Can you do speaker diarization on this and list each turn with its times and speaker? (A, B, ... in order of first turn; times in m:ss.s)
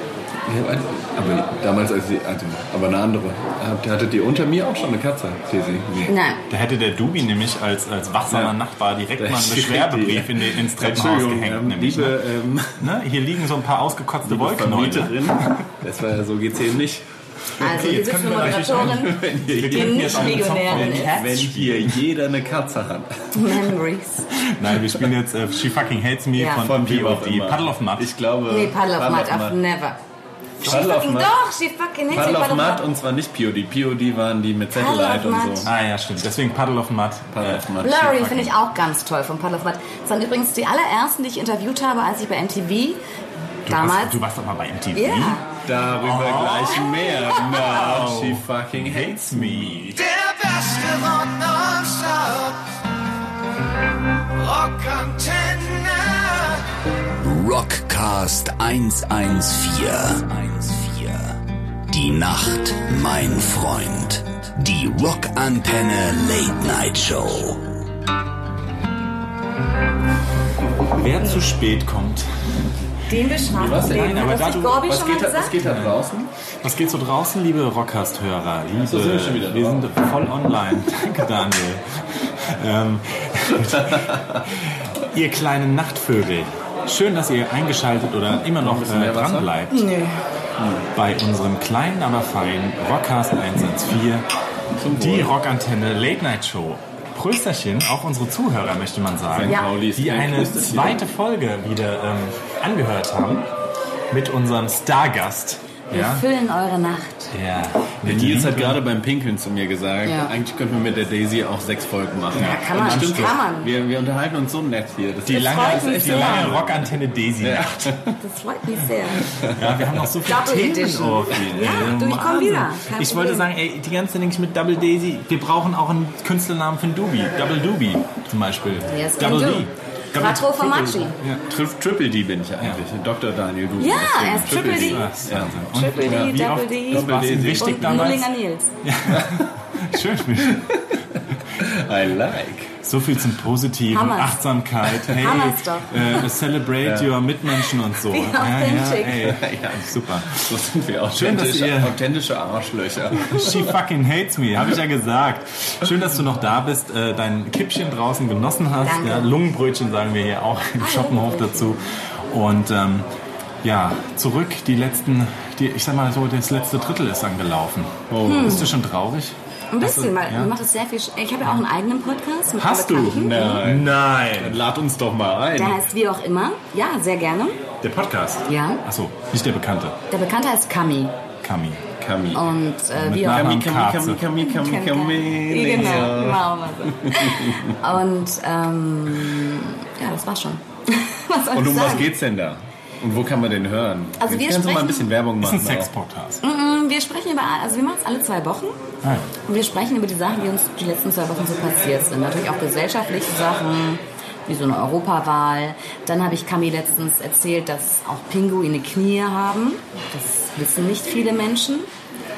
0:00.4-0:06.1 A
0:06.1-0:06.4 B
0:06.5-0:12.2 C
0:08.3-0:08.5 A
0:09.2-0:12.9 A
0:12.8-0:15.6 C
0:14.2-0:17.0 A
0:17.6-0:21.3 B
0:17.6-0:22.0 C
0:17.8-0:23.6 A
0:23.3-0:24.3 B
0:24.3-0:28.1 C
0:26.4-0:26.7 B
0:26.6-0:29.6 A
0:28.5-0:30.0 B
0:30.6-0:32.8 B
0:30.6-0:31.3 A
0:32.1-0:35.7 A
0:34.7-0:35.7 B
0:35.6-0:38.5 C
0:37.3-0:38.3 A
0:37.8-0:43.0 B
0:43.6-0:50.0 C
0:43.7-0:44.2 B
0:44.9-0:45.5 B
0:45.6-0:49.9 A
0:49.9-0:52.6 D
0:54.4-0:56.6 D
0:57.2-1:01.4 E
1:01.9-1:07.7 E
1:10.9-1:12.3 C
1:13.1-1:15.6 B
1:13.5-1:16.3 A
1:13.7-1:14.9 C
1:15.6-1:16.0 C
1:16.6-1:29.9 C
1:18.8-1:19.9 A
1:23.8-1:24.4 A
1:28.6-1:29.5 A
1:29.7-1:30.2 B
1:30.6-1:30.8 A
1:30.9-1:34.3 C
1:34.8-1:35.3 A
1:34.9-1:43.5 C
1:39.3-1:41.0 A
1:39.5-1:39.7 B
1:44.1-1:46.2 C
1:45.9-1:47.3 B
1:47.3-1:48.8 C
1:48.0-1:58.2 A
1:50.0-1:50.3 B
1:52.4-1:53.7 B
1:52.4-1:53.4 C
1:55.3-1:58.0 C
1:55.3-1:56.5 B
1:58.2-1:59.2 B
1:59.2-2:00.1 A
1:59.5-2:11.4 C
2:00.2-2:03.5 B
2:08.9-2:11.2 B
2:11.5-2:18.1 A
2:13.8-2:15.1 B
2:14.5-2:18.3 C
2:15.7-2:18.7 B
2:18.8-2:20.8 C
2:19.1-2:19.5 A
2:20.4-2:22.8 A
2:22.8-2:30.5 C
2:23.9-2:24.3 B
2:25.1-2:26.2 B
2:25.9-2:26.2 A
2:26.8-2:27.2 A
2:28.0-2:29.3 B
2:29.2-2:33.7 A
2:31.1-2:32.0 C
2:33.1-2:43.1 C
2:38.8-2:39.3 B
2:40.8-2:41.9 B
2:43.6-2:50.5 C
2:48.1-2:48.7 A
2:48.2-2:48.7 B
2:49.7-2:53.6 B
2:52.6-2:54.6 C
2:53.0-2:55.8 A
2:55.5-2:57.6 B
2:57.8-3:00.0 C
2:58.4-2:58.8 B
3:00.1-3:01.1 B
3:01.4-3:01.8 C
3:02.0-3:02.6 A
3:02.3-3:03.5 B
3:02.9-3:04.2 C
3:03.2-3:07.8 A
3:04.4-3:12.1 B
3:05.8-3:06.1 C
3:11.5-3:15.9 A
3:14.2-3:15.1 B
3:15.4-3:16.4 C
3:16.4-3:18.8 B
3:19.4-3:31.9 B